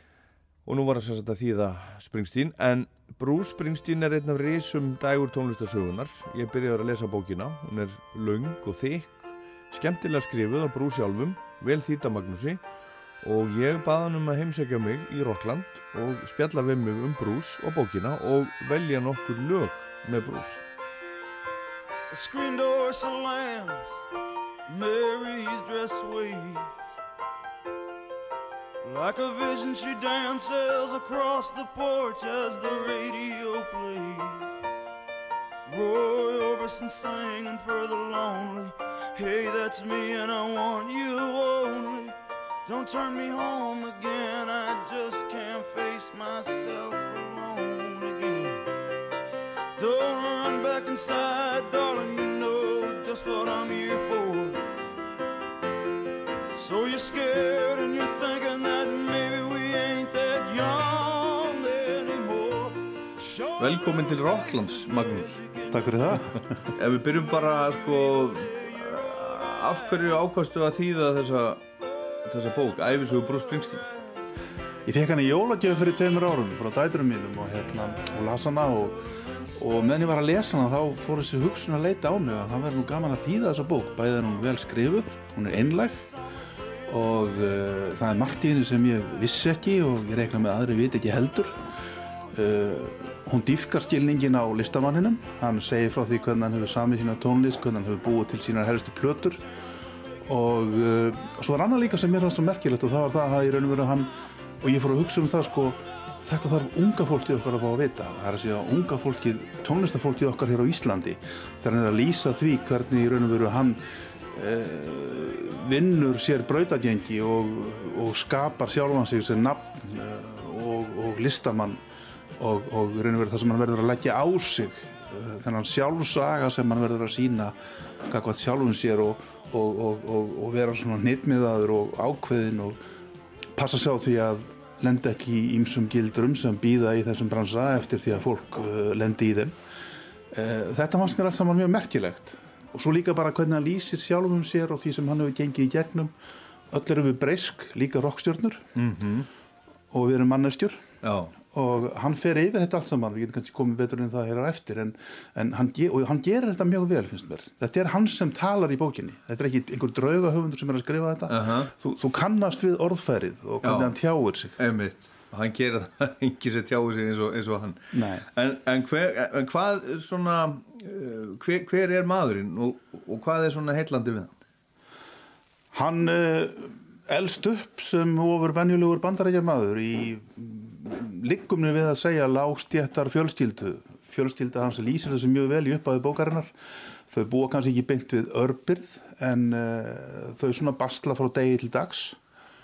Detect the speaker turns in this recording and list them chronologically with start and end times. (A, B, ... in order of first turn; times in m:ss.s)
0:00.7-0:12.6 A
0:13.2-0:20.6 A
0:22.1-0:24.0 B
0:24.7-0:26.7 B
0:28.8-0:34.5 B
0:35.7-0:42.2 B
0:42.7-0:48.6 B
0:49.8-0:54.6 B
0:56.6-1:05.9 B
1:03.6-1:05.4 A
1:05.7-1:06.6 C
1:06.8-1:11.7 A
1:08.3-1:08.6 B
1:12.2-1:13.8 A
1:14.9-1:19.0 C
1:19.6-1:26.1 C
1:26.9-1:31.6 C
1:32.3-1:39.4 C
1:40.3-2:01.8 C
2:02.4-2:07.6 C
2:08.1-2:12.8 C
2:13.6-2:19.6 C
2:20.3-2:26.1 C
2:26.7-2:28.6 C
2:28.8-2:29.3 A
2:29.9-2:30.8 C
2:31.0-2:31.3 A
2:31.4-2:44.6 C
2:41.3-2:41.7 A
2:43.6-2:44.0 A
2:44.6-2:54.4 A
2:47.9-2:48.3 C
2:55.7-3:06.5 C
3:07.1-3:12.2 C